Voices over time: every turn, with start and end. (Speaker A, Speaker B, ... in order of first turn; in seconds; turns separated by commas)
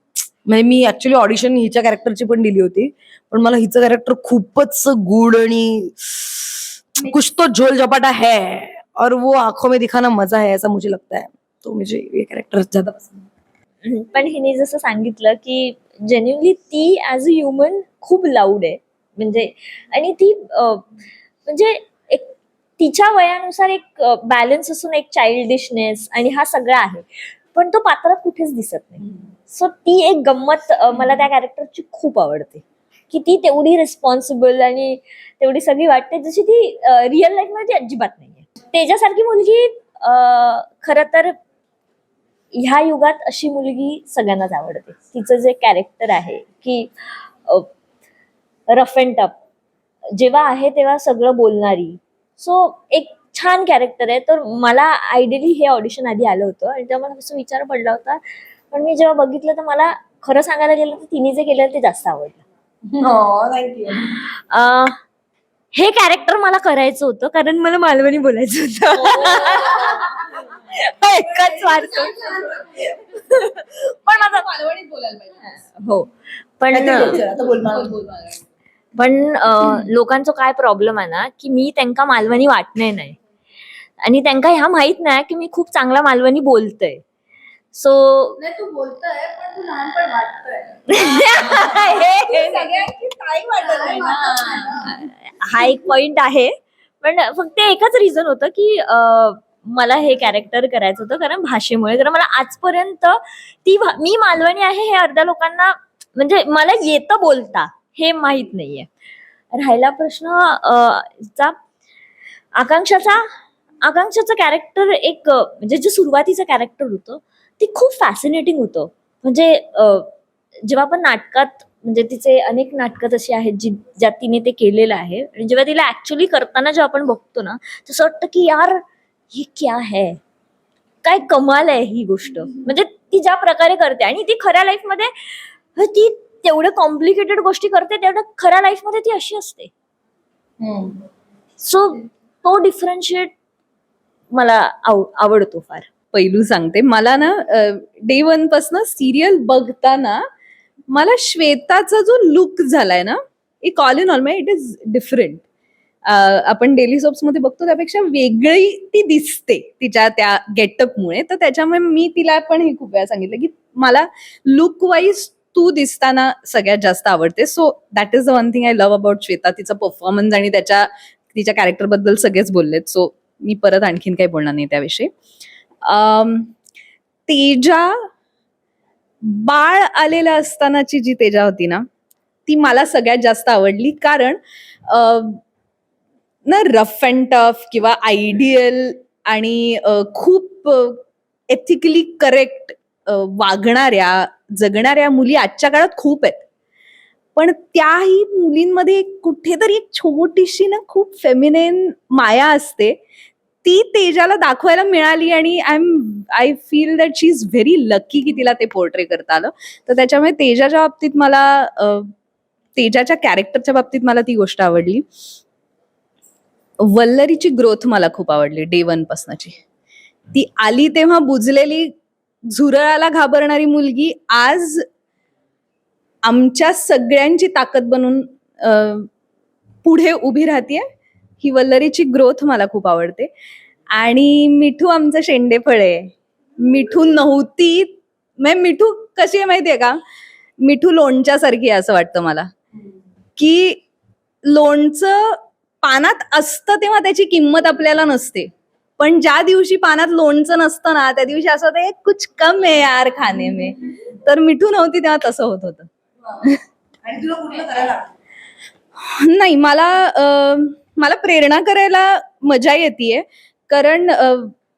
Speaker A: 0.5-13.2, Speaker B: 13.8-20.9, Speaker B: 21.5-41.4, Speaker B: 42.5-46.9, Speaker B: 48.7-49.4, Speaker B: 50.2-62.4, Speaker A: 62.9-64.1, Speaker B: 64.5-65.0, Speaker B: 65.7-70.2, Speaker B: 70.8-72.6, Speaker B: 75.5-76.1, Speaker B: 76.6-77.2, Speaker A: 76.7-78.0, Speaker B: 79.0-83.2, Speaker B: 84.0-87.0, Speaker B: 87.7-88.4, Speaker C: 88.4-94.8, Speaker B: 90.9-92.7, Speaker B: 93.7-108.9, Speaker B: 109.5-111.6, Speaker B: 112.6-113.2, Speaker B: 113.8-120.1, Speaker B: 120.7-130.2, Speaker B: 131.0-139.7, Speaker A: 140.6-141.0, Speaker B: 141.6-143.3, Speaker B: 144.3-145.9, Speaker D: 146.1-150.2, Speaker D: 150.9-155.4, Speaker D: 156.1-175.1, Speaker D: 175.8-176.5, Speaker D: 177.3-177.9, Speaker D: 179.2-181.9, Speaker D: 182.5-185.4, Speaker D: 186.5-196.4, Speaker D: 197.4-203.0, Speaker D: 203.6-212.1, Speaker D: 212.8-215.1, Speaker D: 216.8-219.6, Speaker D: 220.3-221.9, Speaker D: 222.5-224.8, Speaker D: 226.2-229.1, Speaker D: 229.8-230.8, Speaker D: 231.4-233.3, Speaker D: 233.9-240.0, Speaker D: 240.6-242.5, Speaker D: 243.4-243.8, Speaker D: 244.4-255.9, Speaker A: 257.0-258.1, Speaker D: 259.0-264.5